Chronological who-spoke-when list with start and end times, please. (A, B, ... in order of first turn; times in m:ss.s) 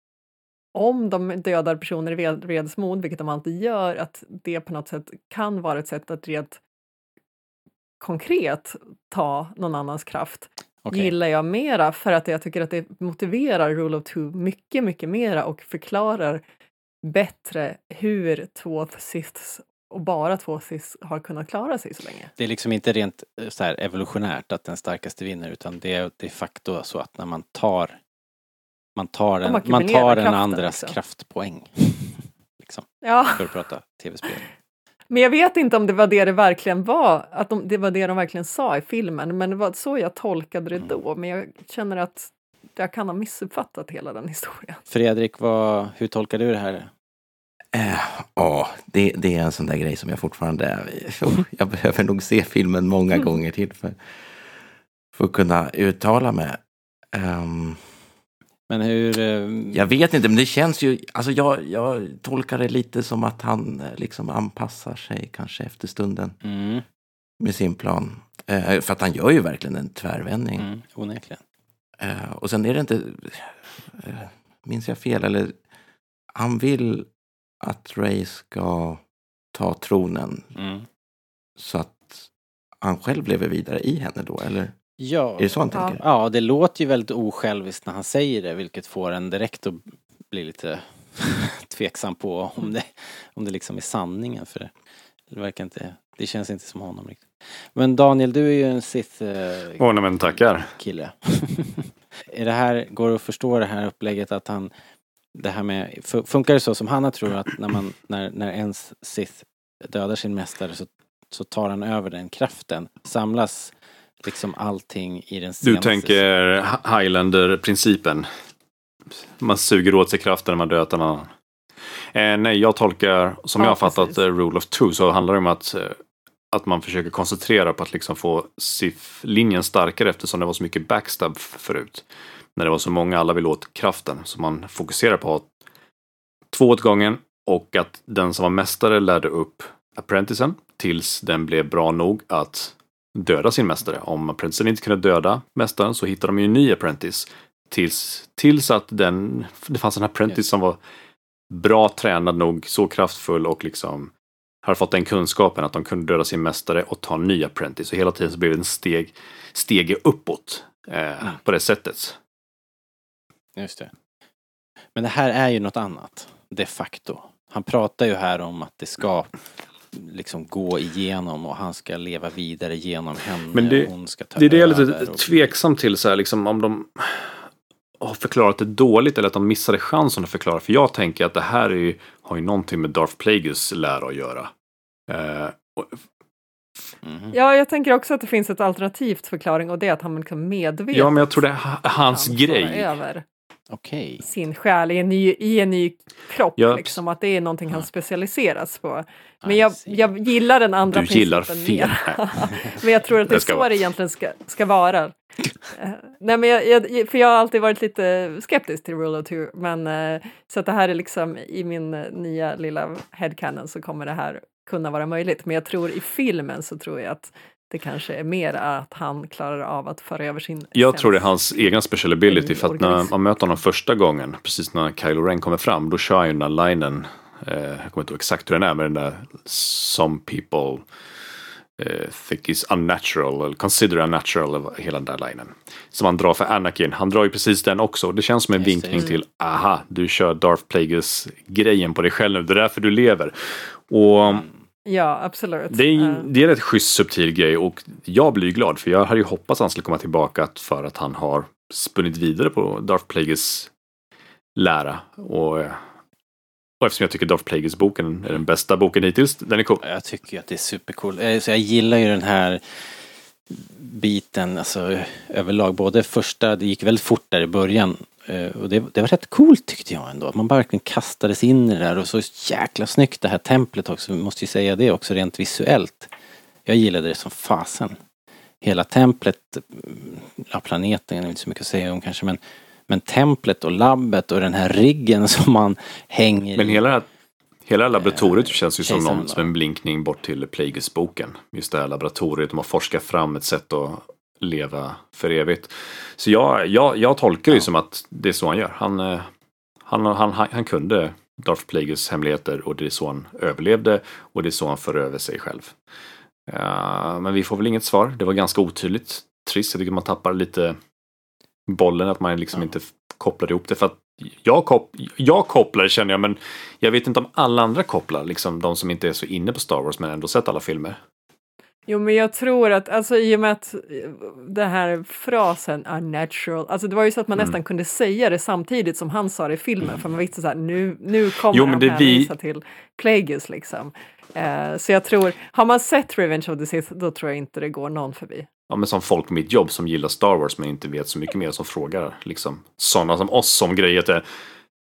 0:00.7-0:06.6 A
0:08.0-0:16.4 A
0:10.8-0:11.1 B
0:17.0-0:22.3 A
0:22.4-0:28.0 B
0:29.0-0:34.5 B
0:29.4-0:31.0 A
0:33.0-0:33.5 A
0:35.1-0:44.8 A
0:44.9-0:46.9 B
0:47.7-0:54.0 C
0:55.1-0:56.6 C
0:57.1-0:57.8 C
0:58.7-0:59.9 B
0:59.7-1:06.4 C
1:06.4-1:06.8 B
1:07.4-1:10.7 C
1:10.6-1:11.4 B
1:12.0-1:15.5 C
1:16.3-1:17.1 C
1:17.6-1:19.0 C
1:19.5-1:20.5 C
1:20.6-1:20.8 B
1:21.6-1:22.3 C
1:22.8-1:24.7 C
1:25.0-1:34.7 B
1:25.4-1:26.0 C
1:35.3-1:39.8 B
1:39.8-1:40.7 D
1:40.6-1:44.7 B
1:45.3-1:56.2 B
1:55.6-1:58.3 D
1:59.4-2:01.3 D
2:02.1-2:06.0 D
2:03.6-2:04.2 A
2:06.5-2:12.0 D
2:12.6-2:15.4 D
2:16.5-2:30.8 D
2:31.5-2:34.1 D
2:34.6-2:42.2 D
2:43.6-2:43.9 B
2:44.9-2:49.4 B
2:49.9-2:55.5 B
2:53.5-2:57.4 D
2:58.0-3:04.5 D
3:05.1-3:06.0 D
3:07.0-3:07.4 B
3:07.3-3:13.2 A
3:10.9-3:12.9 D
3:13.7-3:14.3 B
3:14.2-3:25.1 A
3:16.6-3:17.0 D
3:19.4-3:20.1 B
3:20.9-3:22.2 D
3:22.5-3:22.8 B
3:23.3-3:23.7 D
3:25.7-3:41.7 A
3:40.7-3:50.8 D
3:42.3-3:43.1 A
3:51.8-4:04.4 D
3:58.6-3:59.2 B
4:04.2-4:04.5 B
4:04.8-4:06.3 A
4:05.7-4:13.7 D
4:14.6-4:15.8 D
4:16.8-4:19.8 D
4:19.8-4:22.9 B
4:23.5-4:36.1 B
4:36.6-4:38.0 B
4:38.6-4:46.8 B
4:46.6-4:47.0 D
4:47.7-4:59.3 D
4:47.9-4:49.5 B
4:59.8-5:05.7 D
5:06.5-5:10.8 D
5:11.7-5:21.0 D
5:21.9-5:38.5 A
5:31.5-5:32.3 D
5:38.7-5:44.2 D